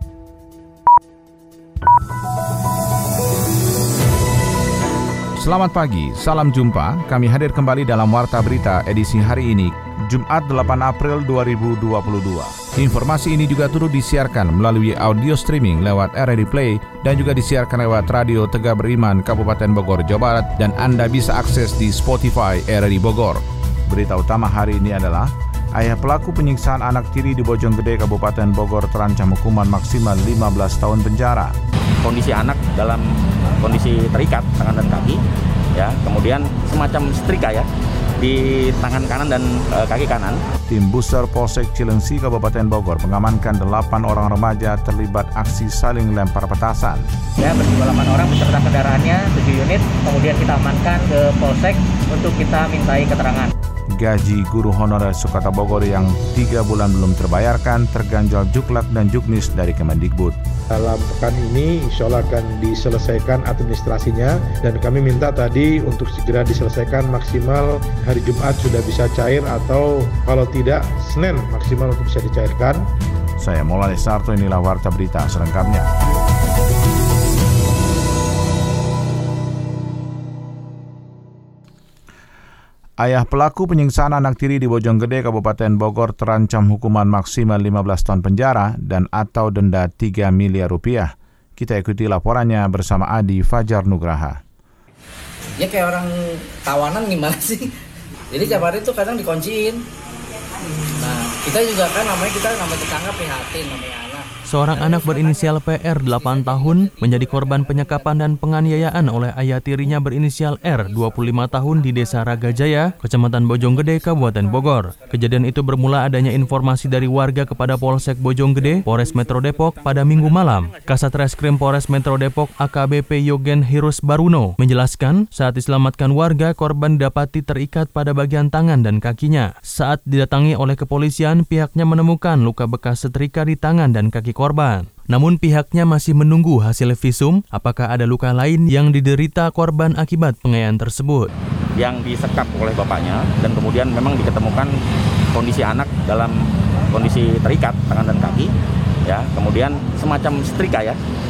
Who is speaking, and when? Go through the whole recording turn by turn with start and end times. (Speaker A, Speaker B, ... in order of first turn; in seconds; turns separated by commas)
Speaker A: 5.4-31.5, Speaker B: 32.0-33.0, Speaker B: 33.6-35.2, Speaker B: 35.8-37.7, Speaker B: 38.2-40.4, Speaker A: 40.7-47.0, Speaker C: 47.4-53.5, Speaker A: 54.0-60.4, Speaker D: 60.8-72.8, Speaker A: 73.4-75.9, Speaker A: 83.0-94.4, Speaker E: 95.6-97.7, Speaker E: 98.3-99.8, Speaker E: 101.0-104.3, Speaker F: 104.5-141.3, Speaker B: 141.8-144.7, Speaker B: 145.3-146.3, Speaker B: 146.9-148.5, Speaker B: 149.1-151.0